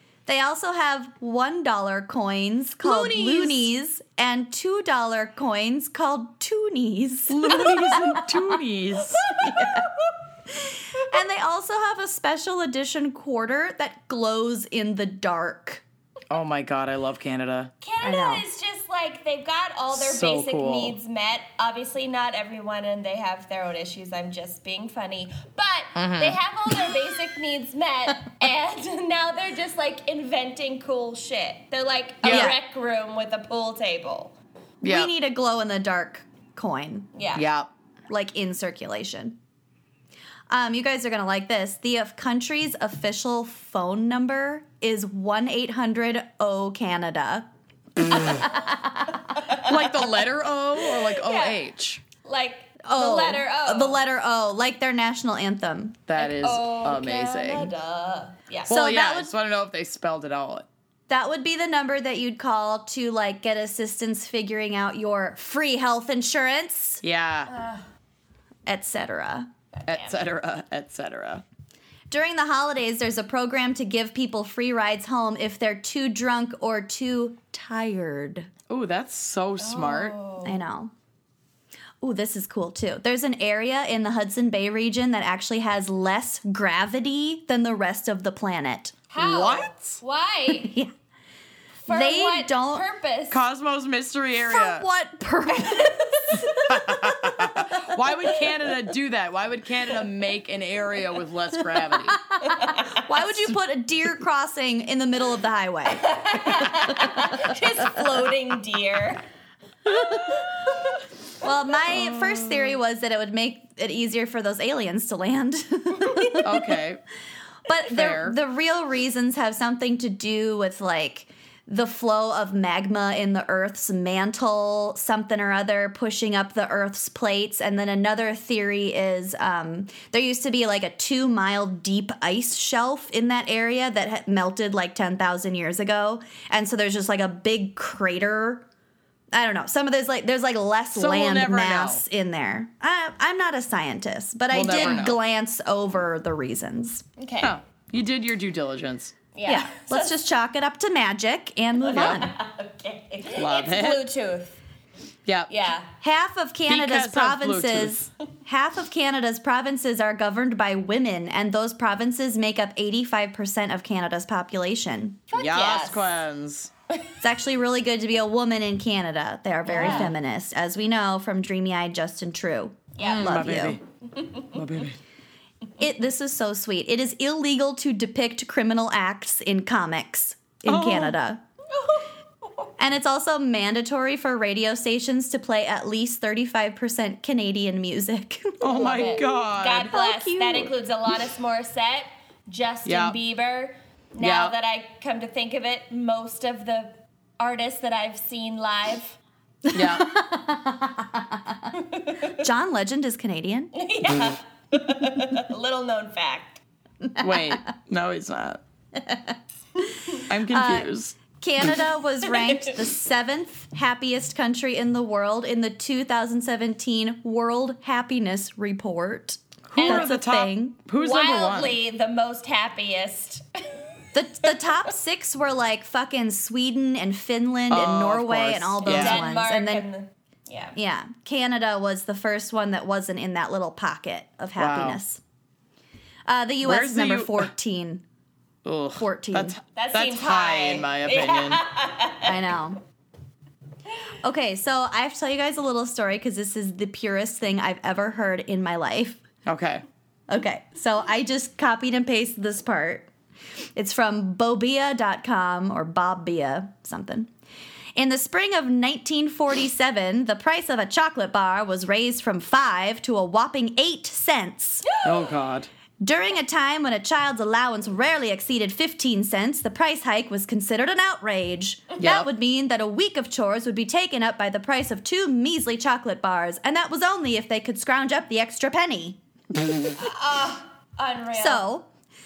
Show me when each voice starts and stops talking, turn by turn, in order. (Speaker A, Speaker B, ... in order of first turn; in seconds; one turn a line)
Speaker A: 0.3-8.4
Speaker B: 2.9-3.6
Speaker C: 7.3-9.4
Speaker A: 9.3-9.9
Speaker B: 9.3-10.1
Speaker A: 10.6-15.8
Speaker C: 16.3-17.7
Speaker B: 17.8-34.4
Speaker A: 18.0-18.4
Speaker C: 19.9-21.0
Speaker C: 26.0-26.7
Speaker C: 32.2-32.5
Speaker A: 32.2-32.6
Speaker C: 34.8-35.1
Speaker A: 34.8-37.1
Speaker B: 37.1-37.5
Speaker C: 37.4-37.7
Speaker A: 38.1-39.4
Speaker A: 40.5-47.5
Speaker B: 48.1-48.6
Speaker A: 48.2-49.2
Speaker B: 49.2-49.9
Speaker C: 49.6-52.0
Speaker B: 51.0-51.6
Speaker B: 52.2-54.0
Speaker A: 52.8-56.0
Speaker C: 56.1-57.7
Speaker B: 56.2-58.8
Speaker A: 58.7-59.3
Speaker C: 58.7-60.7
Speaker A: 61.1-67.0
Speaker C: 67.0-67.5
Speaker B: 67.5-67.9
Speaker A: 68.7-69.5
Speaker B: 69.7-70.2
Speaker C: 69.9-71.4
Speaker A: 72.1-78.5
Speaker C: 78.7-80.2
Speaker B: 79.6-80.6
Speaker A: 80.4-80.9
Speaker A: 82.0-89.0
Speaker B: 89.1-90.7
Speaker C: 89.2-90.0
Speaker A: 90.5-90.9
Speaker B: 91.8-93.4
Speaker A: 91.9-92.8
Speaker C: 93.3-94.8
Speaker A: 94.5-97.8
Speaker B: 95.5-96.8
Speaker C: 96.6-102.2
Speaker B: 102.5-103.0
Speaker A: 102.5-107.2
Speaker B: 106.0-109.2
Speaker A: 111.4-116.6
Speaker C: 112.0-112.6
Speaker C: 116.4-117.0
Speaker A: 117.7-138.7
Speaker C: 117.9-118.4
Speaker A: 139.3-147.1
Speaker C: 140.9-142.0
Speaker C: 144.5-145.2
Speaker B: 144.7-145.0
Speaker B: 147.2-147.6
Speaker C: 147.4-149.2
Speaker B: 149.3-150.2
Speaker A: 149.4-152.3
Speaker B: 151.8-154.6
Speaker C: 151.9-152.2
Speaker C: 153.2-154.1
Speaker B: 155.5-155.9
Speaker A: 156.0-165.2
Speaker C: 156.7-158.0
Speaker B: 165.3-166.1
Speaker C: 165.3-166.7
Speaker A: 167.2-173.8
Speaker C: 169.7-170.1
Speaker B: 169.7-170.1
Speaker B: 173.0-173.4
Speaker C: 173.0-173.8
Speaker B: 174.2-174.5
Speaker C: 174.5-175.0
Speaker A: 175.8-181.4
Speaker C: 180.7-181.2
Speaker B: 181.7-182.7
Speaker A: 182.8-188.8
Speaker C: 188.6-189.9
Speaker B: 188.7-199.2
Speaker A: 189.9-190.7
Speaker C: 192.8-193.2
Speaker C: 194.2-194.5
Speaker A: 199.7-201.6
Speaker C: 199.7-200.1
Speaker B: 201.8-202.3
Speaker A: 202.3-203.7
Speaker B: 203.7-206.6
Speaker A: 207.1-207.6
Speaker C: 207.2-208.6
Speaker A: 209.0-209.4
Speaker C: 210.2-211.2
Speaker A: 210.5-220.8
Speaker B: 212.5-212.8
Speaker C: 219.7-221.8
Speaker B: 219.8-220.1
Speaker B: 220.9-223.8
Speaker A: 224.1-229.8
Speaker C: 227.7-229.2
Speaker B: 228.8-230.8
Speaker A: 230.8-235.2
Speaker C: 234.6-235.0
Speaker A: 236.3-238.0
Speaker C: 236.6-237.5
Speaker C: 238.7-241.6
Speaker A: 239.0-239.6
Speaker B: 239.8-242.3
Speaker A: 242.2-242.8
Speaker A: 244.2-249.2
Speaker C: 249.5-249.8
Speaker A: 250.3-253.1
Speaker A: 253.8-257.3
Speaker A: 257.9-264.9
Speaker C: 265.0-265.7
Speaker A: 266.0-279.2
Speaker C: 272.0-272.3
Speaker B: 280.0-281.7
Speaker A: 281.4-281.9